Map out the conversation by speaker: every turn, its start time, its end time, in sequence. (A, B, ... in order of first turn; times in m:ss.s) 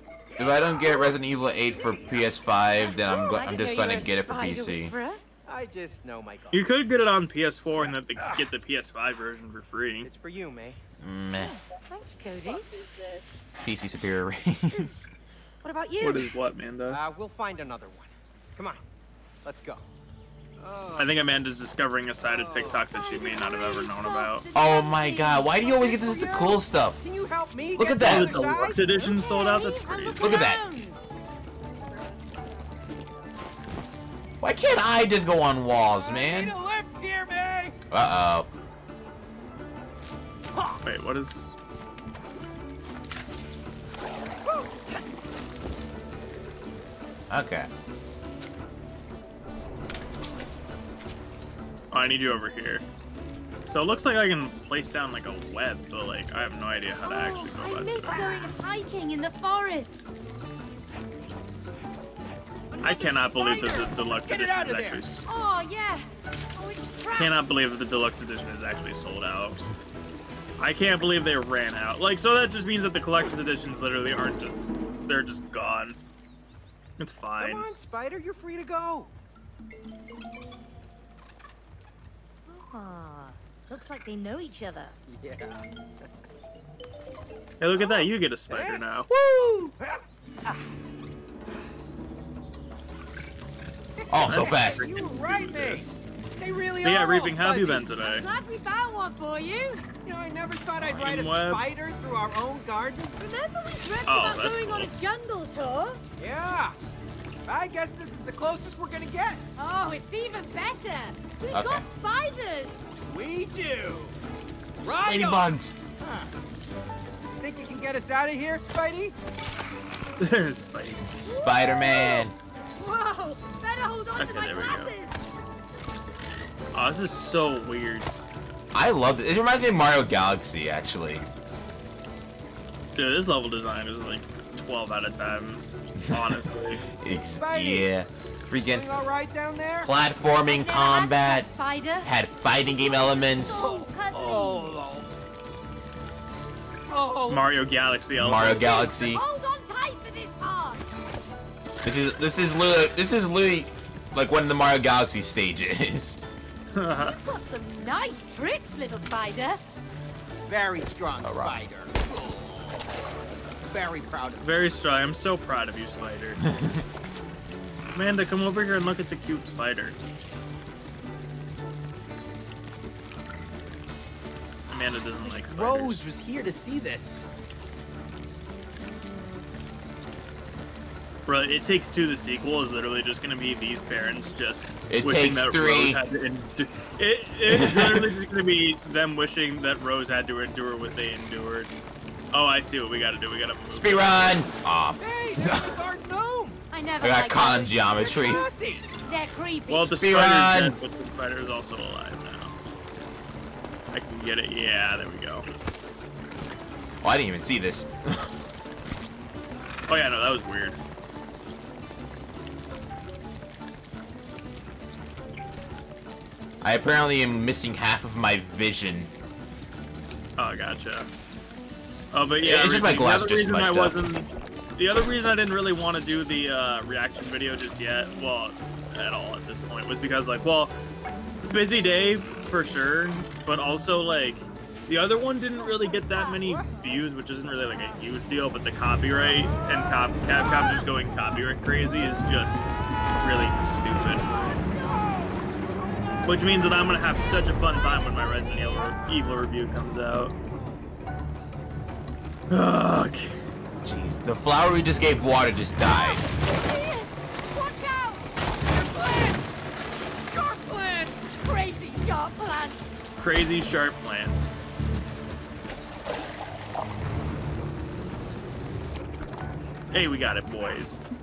0:00.4-0:04.9 A
0:00.4-0:01.1 B
0:02.8-0:05.2 C
0:05.4-0:06.7 B
0:06.5-0:10.1 D
0:10.0-0:10.8 B
0:11.0-0:11.5 A
0:11.4-0:12.7 C
0:13.6-0:15.1 A
0:15.6-0:16.3 C
0:16.0-0:17.0 D
0:16.9-0:18.8 B
0:19.4-0:19.8 B
0:20.6-0:21.3 B
0:21.0-0:24.4 D
0:22.2-0:22.8 B
0:22.6-0:25.9 C
0:24.5-0:27.0 A
0:25.7-0:29.1 B
0:27.7-0:28.6 A
0:28.0-0:30.3 D
0:28.7-0:31.0 C
0:30.2-0:30.6 A
0:34.4-0:36.5 A
0:35.8-0:37.8 B
0:37.9-0:38.5 A
0:40.8-0:41.5 D
0:47.3-0:47.7 A
0:51.9-0:52.8 D
0:53.7-0:58.2 D
0:57.0-1:00.3 C
0:58.1-0:58.4 B
1:02.7-1:05.0 B
1:02.8-1:05.3 D
1:05.2-1:07.4 C
1:07.1-1:09.6 D
1:10.6-1:16.0 D
1:17.0-1:17.7 D
1:17.4-1:19.1 B
1:22.5-1:25.0 C
1:25.1-1:25.6 B
1:27.6-1:29.1 D
1:27.7-1:29.2 B
1:29.1-1:29.7 A
1:29.8-1:30.6 B
1:34.0-1:35.8 B
1:34.1-1:34.9 A
1:34.2-1:36.0 D
1:36.4-1:37.9 B
1:36.8-1:38.2 D
1:38.0-1:39.8 C
1:40.0-1:43.4 B
1:40.9-1:41.6 D
1:43.2-1:46.0 C
1:44.0-1:44.9 D
1:46.2-1:46.8 B
1:47.4-1:49.4 B
1:49.6-1:52.9 C
1:51.5-1:51.8 A
1:53.1-1:54.2 B
1:54.8-1:56.3 B
1:54.8-1:55.8 A
1:57.4-1:59.1 B
2:00.2-2:01.0 D
2:01.0-2:02.3 A
2:01.2-2:05.3 C
2:04.2-2:04.9 D
2:06.7-2:08.1 D
2:08.7-2:11.2 A
2:12.9-2:16.8 D
2:16.1-2:18.8 A
2:17.3-2:17.9 B
2:18.6-2:19.9 B
2:19.8-2:21.5 A
2:20.2-2:22.1 C
2:22.0-2:23.7 A
2:22.8-2:24.8 C
2:23.6-2:25.1 B
2:26.9-2:27.5 B
2:27.3-2:28.7 D
2:28.2-2:29.2 A
2:28.4-2:31.0 C
2:31.8-2:36.2 A
2:36.7-2:37.2 D
2:37.0-2:39.6 C
2:40.5-2:42.8 B
2:41.2-2:41.6 A
2:43.6-2:44.6 B
2:44.4-2:46.4 D
2:46.4-2:46.8 A
2:47.9-2:50.0 D
2:54.7-2:56.0 D
2:55.2-2:57.3 B
3:01.3-3:11.8 D
3:04.9-3:06.0 A
3:07.5-3:08.1 A
3:12.3-3:14.3 D
3:13.7-3:15.8 A
3:15.0-3:16.6 B
3:16.7-3:18.4 C
3:17.0-3:18.4 A
3:17.9-3:18.9 B
3:19.0-3:20.0 C
3:19.7-3:22.5 D
3:19.9-3:20.8 A
3:23.9-3:25.5 D
3:27.0-3:28.3 A
3:29.9-3:30.8 D
3:36.6-3:39.1 A
3:40.4-3:41.1 D
3:42.1-3:50.7 D
3:42.4-3:44.0 A
3:51.5-4:04.6 D
4:06.2-4:10.3 D
4:12.5-4:13.4 D
4:13.8-4:16.3 A
4:15.9-4:18.3 C
4:18.5-4:19.6 B
4:20.2-4:21.4 B
4:21.4-4:22.8 C
4:23.2-4:24.6 D
4:29.9-4:31.0 D